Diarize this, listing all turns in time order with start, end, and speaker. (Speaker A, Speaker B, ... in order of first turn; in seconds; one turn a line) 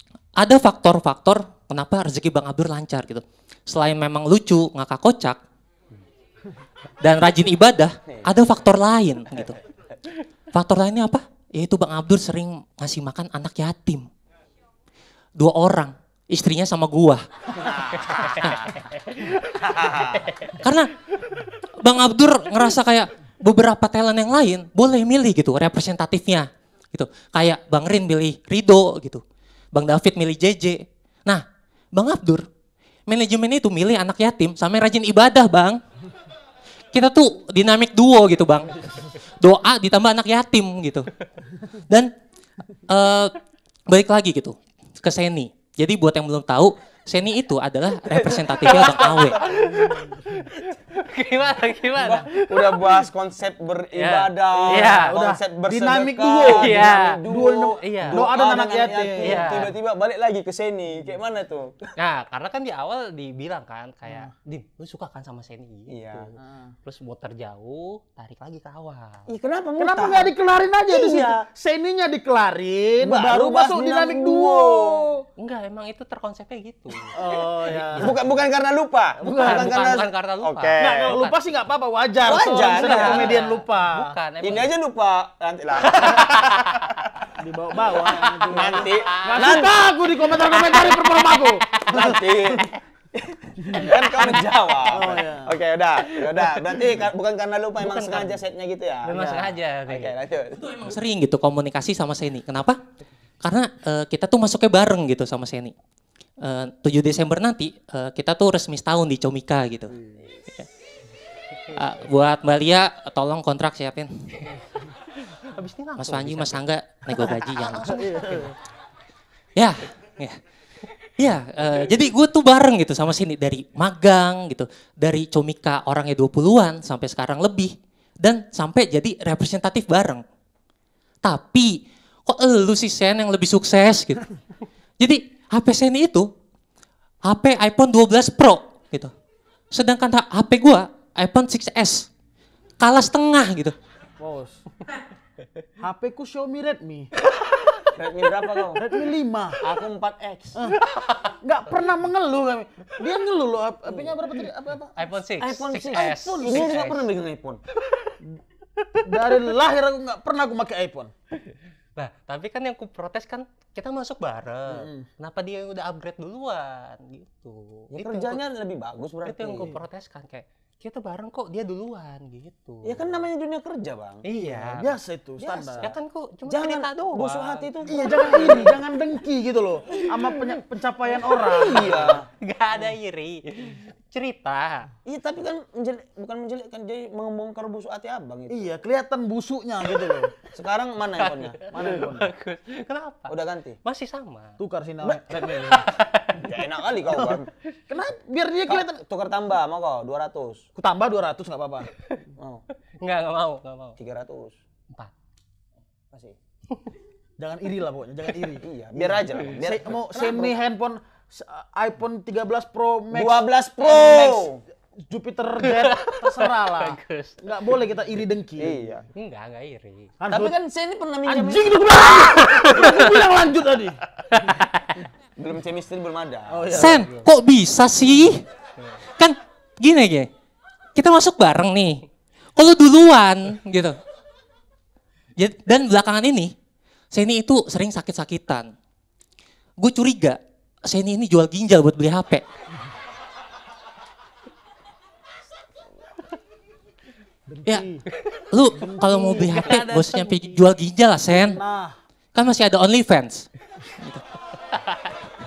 Speaker A: 0.4-5.4
Speaker A: 7.0-9.6
Speaker B: 8.1-8.3
Speaker A: 10.5-14.1
Speaker A: 15.3-17.2
Speaker B: 17.5-18.5
Speaker C: 18.2-18.6
Speaker A: 18.4-18.7
Speaker B: 19.6-20.3
Speaker A: 20.6-20.9
Speaker A: 21.8-29.2
Speaker A: 29.7-32.5
Speaker A: 33.1-35.8
Speaker A: 36.9-41.1
Speaker A: 42.9-43.4
Speaker A: 43.9-49.4
Speaker B: 48.1-49.5
Speaker C: 48.6-53.1
Speaker B: 52.0-61.9
Speaker C: 53.9-55.2
Speaker D: 54.6-59.6
Speaker C: 56.5-57.2
Speaker C: 57.8-58.3
Speaker C: 59.2-59.7
Speaker C: 62.0-66.3
Speaker B: 65.9-66.3
Speaker D: 66.4-66.7
Speaker C: 66.8-69.3
Speaker B: 69.3-70.3
Speaker D: 69.8-75.2
Speaker B: 70.9-71.4
Speaker B: 73.0-75.0
Speaker C: 75.4-77.1
Speaker D: 77.1-78.1
Speaker C: 77.7-78.3
Speaker B: 78.0-81.2
Speaker D: 79.2-79.8
Speaker C: 79.3-81.4
Speaker D: 80.8-84.1
Speaker B: 82.2-83.4
Speaker C: 82.5-84.7
Speaker B: 84.4-87.3
Speaker C: 85.9-86.8
Speaker D: 87.4-92.7
Speaker C: 88.0-89.6
Speaker B: 88.5-89.7
Speaker C: 90.5-92.2
Speaker B: 91.8-99.2
Speaker D: 93.6-93.9
Speaker C: 93.9-95.1
Speaker D: 94.9-95.5
Speaker C: 96.0-96.9
Speaker C: 97.8-98.4
Speaker C: 99.0-100.1
Speaker D: 99.1-99.5
Speaker B: 99.9-100.8
Speaker A: 100.7-102.8
Speaker A: 103.4-105.7
Speaker A: 106.4-109.9
Speaker A: 111.7-114.3
Speaker C: 115.4-116.6
Speaker A: 116.0-118.2
Speaker C: 117.2-117.5
Speaker D: 117.6-118.5
Speaker A: 119.5-120.4
Speaker A: 121.2-130.2
Speaker A: 131.2-134.3
Speaker A: 135.0-136.3
Speaker A: 137.2-139.1
Speaker A: 139.7-142.1
Speaker A: 142.8-143.7
Speaker D: 144.2-144.6
Speaker D: 145.8-147.1
Speaker B: 147.9-148.8
Speaker D: 148.7-149.6
Speaker B: 149.6-150.7
Speaker C: 150.8-151.3
Speaker D: 151.4-155.0
Speaker C: 154.9-157.1
Speaker B: 155.4-157.6
Speaker D: 155.9-156.8
Speaker D: 158.9-161.1
Speaker C: 161.9-168.4
Speaker D: 164.7-165.1
Speaker B: 167.9-169.8
Speaker C: 169.2-173.2
Speaker B: 172.8-174.2
Speaker C: 174.2-175.0
Speaker D: 174.4-175.9
Speaker B: 175.4-175.9
Speaker C: 175.8-177.7
Speaker B: 176.4-178.8
Speaker D: 177.9-182.2
Speaker C: 179.9-180.6
Speaker C: 181.2-184.9
Speaker B: 181.6-182.3
Speaker B: 185.1-188.7
Speaker D: 188.5-190.3
Speaker B: 190.5-191.6
Speaker C: 191.2-196.6
Speaker D: 191.7-192.3
Speaker B: 193.3-193.8
Speaker D: 194.6-195.9
Speaker B: 196.3-197.5
Speaker D: 197.9-199.0
Speaker B: 198.7-200.7
Speaker D: 200.8-201.9
Speaker B: 202.4-202.6
Speaker C: 203.0-204.0
Speaker B: 204.0-204.6
Speaker B: 206.1-206.4
Speaker D: 207.4-214.5
Speaker B: 208.6-210.5
Speaker B: 213.1-214.6
Speaker D: 215.1-218.8
Speaker C: 215.6-217.4
Speaker B: 218.6-219.1
Speaker C: 219.1-220.1
Speaker D: 220.2-220.5
Speaker B: 220.3-222.0
Speaker D: 221.2-224.0
Speaker C: 222.5-223.1
Speaker B: 225.4-226.8
Speaker D: 226.5-227.2
Speaker A: 226.7-228.4
Speaker A: 229.2-230.3
Speaker A: 230.9-232.0
Speaker A: 232.6-234.0
Speaker A: 235.4-236.5
Speaker A: 237.1-238.7
Speaker A: 239.8-242.4
Speaker D: 247.5-248.0
Speaker A: 248.5-251.6
Speaker D: 248.9-249.6
Speaker C: 249.3-250.7
Speaker D: 251.3-251.9
Speaker A: 252.3-253.5
Speaker C: 254.7-255.1